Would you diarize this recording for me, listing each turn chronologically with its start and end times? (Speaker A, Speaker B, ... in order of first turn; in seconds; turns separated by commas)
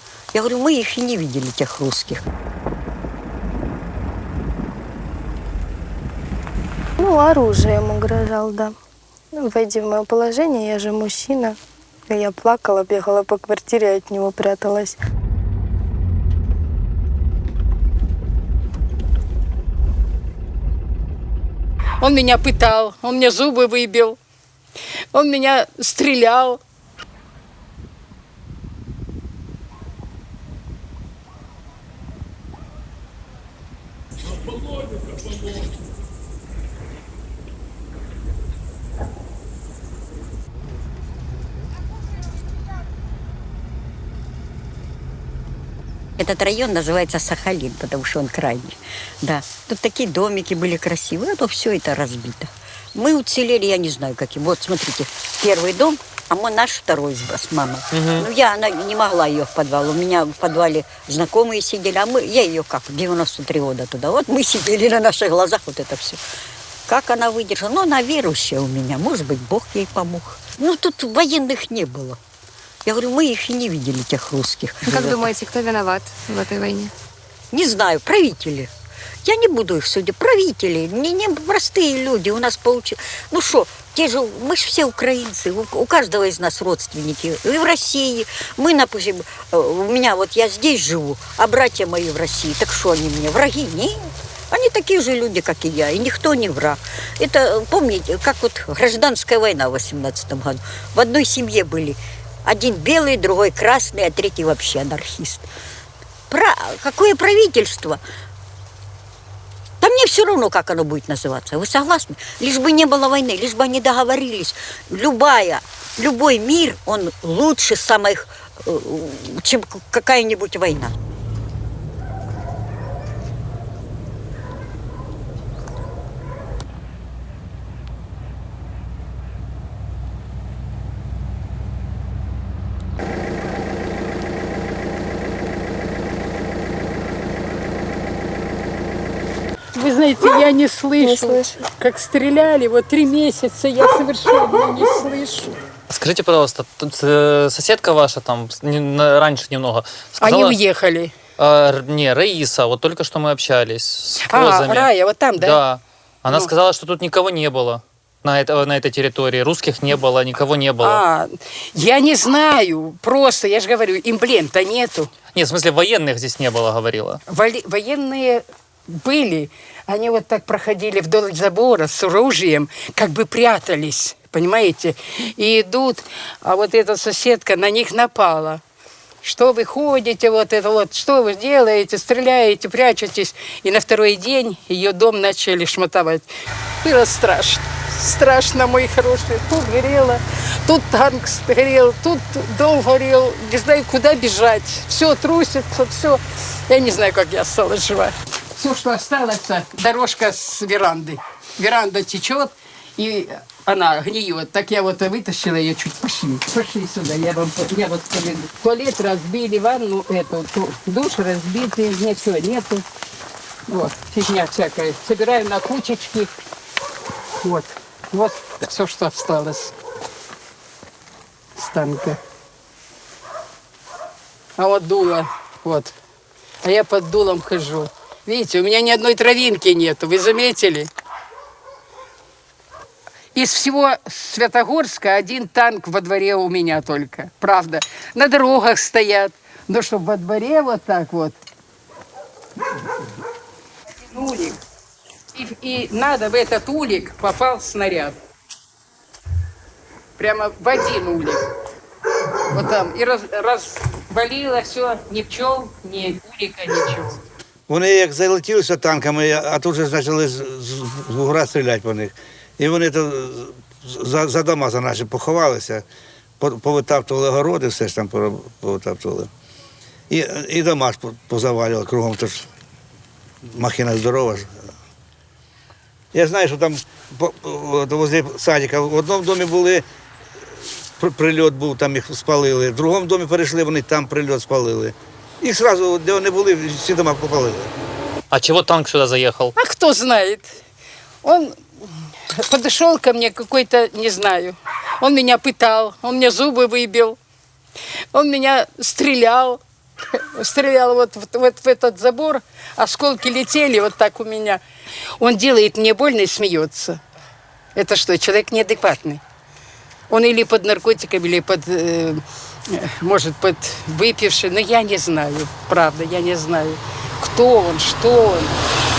Speaker A: 0.3-2.2, Speaker B: 7.0-8.7, Speaker B: 9.4-11.6, Speaker B: 12.1-15.0, Speaker C: 22.0-24.2, Speaker C: 25.1-26.6, Speaker A: 46.2-66.2, Speaker D: 57.9-58.3, Speaker A: 66.9-72.2, Speaker A: 72.8-75.3, Speaker E: 74.8-76.9, Speaker A: 77.5-78.7, Speaker A: 79.2-105.5, Speaker A: 106.3-108.0, Speaker A: 109.8-121.0, Speaker C: 139.7-145.6, Speaker B: 141.0-141.6, Speaker D: 145.9-150.6, Speaker C: 150.2-151.1, Speaker D: 151.4-161.0, Speaker C: 154.3-155.6, Speaker C: 160.8-165.1, Speaker D: 165.3-167.2, Speaker C: 167.3-178.6, Speaker C: 179.2-186.3, Speaker C: 186.8-212.8, Speaker C: 213.7-216.3, Speaker C: 217.4-219.7, Speaker C: 221.6-222.2, Speaker C: 224.6-225.9, Speaker C: 226.6-230.9, Speaker C: 233.3-241.4, Speaker C: 244.1-244.6, Speaker C: 245.3-248.2, Speaker C: 250.2-251.4, Speaker C: 252.5-257.2, Speaker F: 257.7-265.8, Speaker F: 266.4-269.3, Speaker F: 270.1-272.5, Speaker F: 273.5-274.5, Speaker F: 276.1-279.8, Speaker F: 281.0-287.7, Speaker D: 288.3-289.5, Speaker C: 289.6-290.5, Speaker C: 291.2-291.6, Speaker C: 292.4-297.2, Speaker C: 298.1-299.6, Speaker C: 300.1-304.6, Speaker C: 305.2-307.0, Speaker C: 307.8-309.2, Speaker C: 310.1-318.6